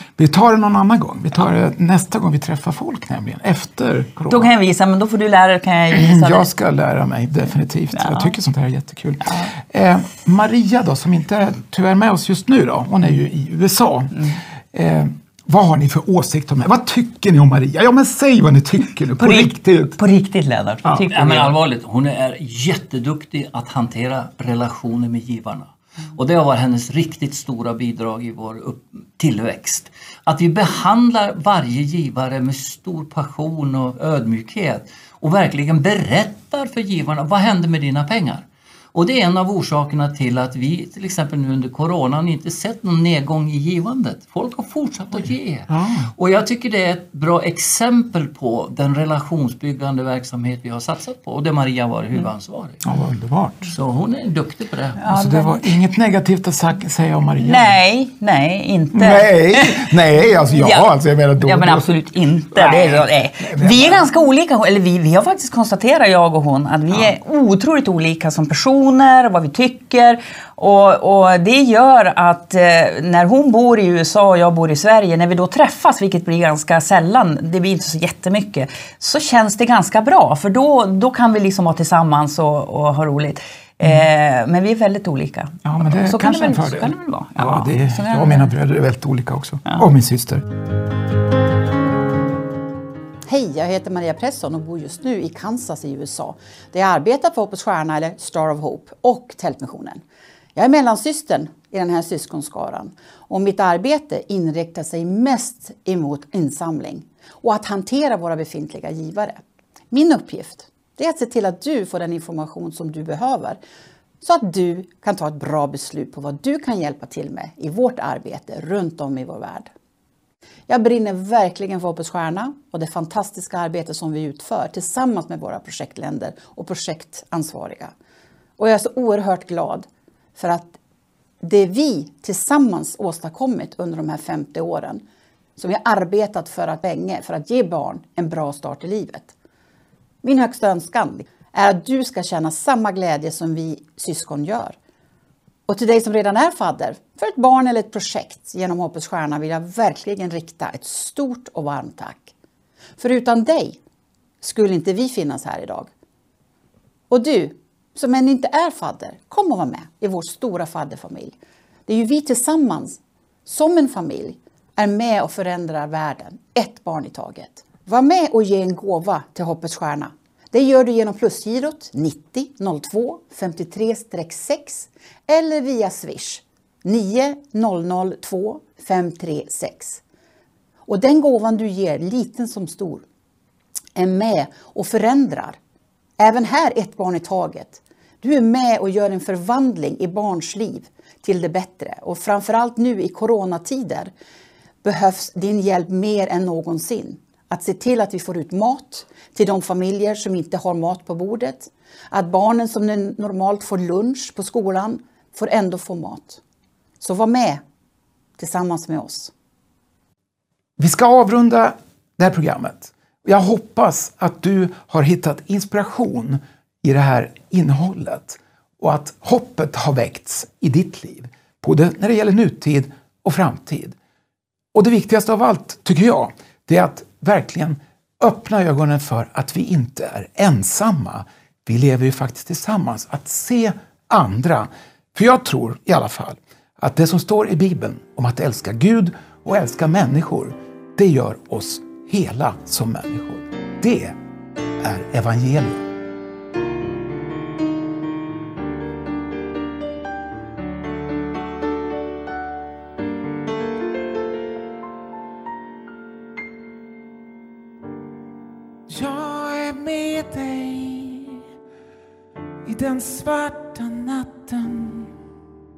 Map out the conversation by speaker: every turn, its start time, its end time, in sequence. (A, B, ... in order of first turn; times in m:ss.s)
0:00.2-0:04.5 A
0:04.3-0:06.5 B
0:05.9-0:20.0 A
0:07.9-0:08.3 B
0:19.2-0:21.5 B
0:20.8-0:21.1 A
0:21.1-0:52.8 C
0:45.7-0:46.1 A
0:52.8-0:53.7 A
0:53.7-0:55.0 C
0:55.0-0:55.7 B
0:55.1-0:57.8 A
0:57.4-0:59.9 B
0:58.9-1:01.9 A
1:00.5-1:00.9 B
1:01.4-1:28.5 B
1:02.5-1:04.1 A
1:25.6-1:30.4 A
1:33.3-1:40.0 D
1:40.6-1:53.6 D
1:54.2-1:59.7 D
2:00.7-2:07.9 D
2:08.6-2:10.8 D
2:11.4-2:15.0 D
2:15.6-2:19.3 D
2:20.2-2:24.8 D
2:25.7-2:32.3 D
2:33.0-2:33.8 D
2:34.4-2:35.9 D
2:37.1-3:00.0 D
3:00.9-3:03.0 D
3:04.0-3:05.6 D
3:06.2-3:14.1 D
3:14.8-3:26.4 D
3:27.0-3:27.6 D
3:28.4-3:29.3 D
3:30.8-3:44.0 A
3:44.7-4:04.2 A
4:04.8-4:05.8 A
4:18.9-4:21.4 E
4:22.6-4:25.1 E